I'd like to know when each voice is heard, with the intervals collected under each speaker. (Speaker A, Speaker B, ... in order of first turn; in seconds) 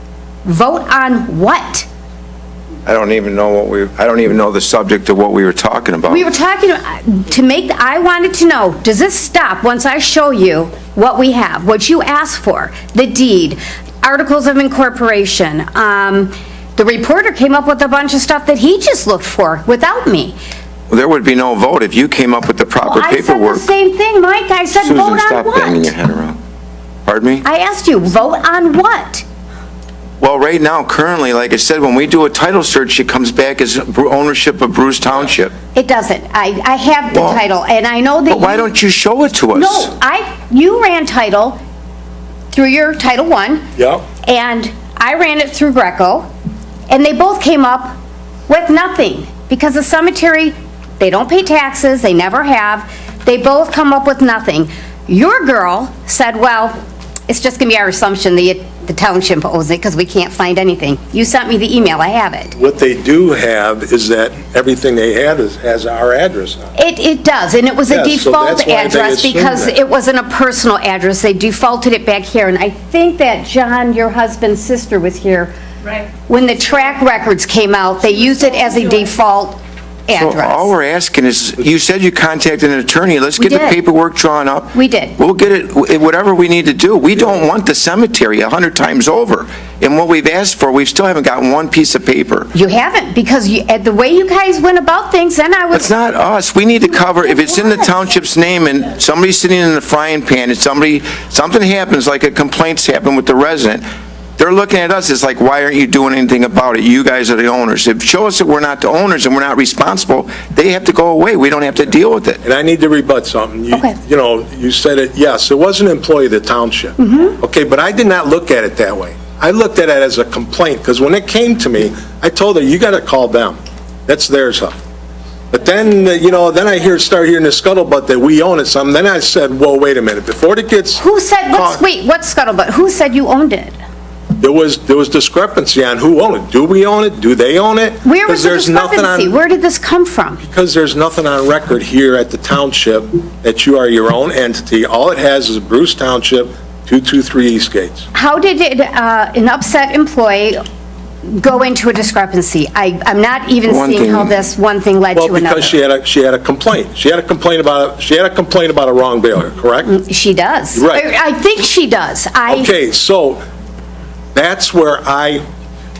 Speaker A: 0.4-1.9, 6.1-20.4, 22.8-25.9, 27.4-29.2, 35.7-38.7, 39.5-41.6, 42.5-43.6, 44.2-46.3, 46.9-47.9, 48.5-56.8, 57.3-62.5, 66.8-75.5, 76.1-80.7, 83.4-83.8, 84.7-85.2, 92.5-96.0, 96.9-97.9, 117.0-117.3, 131.0-133.7, 138.0-140.4, 148.1-150.6, 151.2-155.7, 159.8-162.7
Speaker B: 2.9-6.3, 20.9-23.7, 24.8-26.4, 27.0-27.4, 30.2-35.5, 37.1-37.4, 38.3-39.9, 80.1-92.5, 95.7-103.8, 104.4-112.4, 153.7-154.4
Speaker C: 43.8-44.0, 62.5-66.7, 67.9-69.7, 112.4-124.8, 125.5-131.8, 134.4-139.3, 140.4-148.1, 155.1-159.9, 160.7-161.0, 162.5-163.4, 164.3-165.4